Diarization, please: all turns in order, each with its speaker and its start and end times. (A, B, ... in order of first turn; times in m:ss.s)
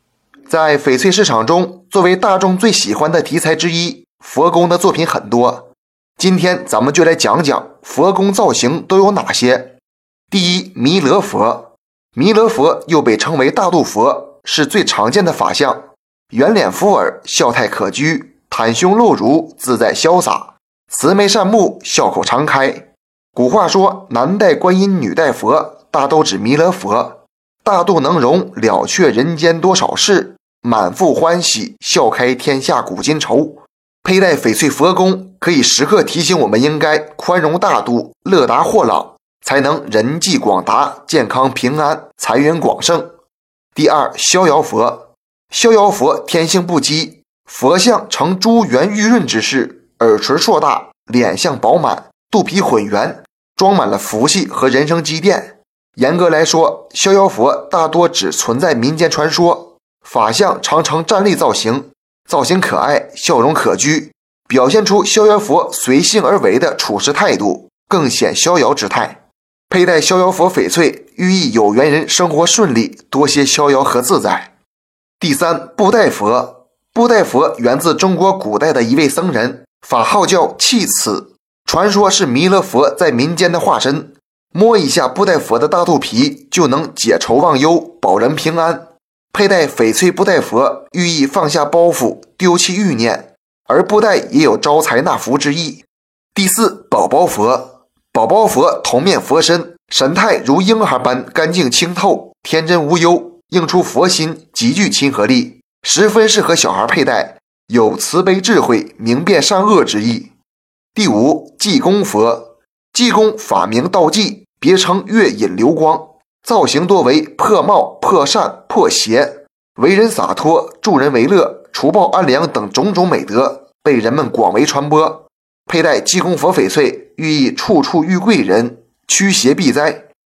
0:00.5-0:05.6 A
0:06.2-0:09.7 A
0:10.3-0:43.1 A
0:43.7-1:14.5 A
1:15.2-1:35.8 A
1:36.3-1:50.3 A
1:50.9-2:10.0 A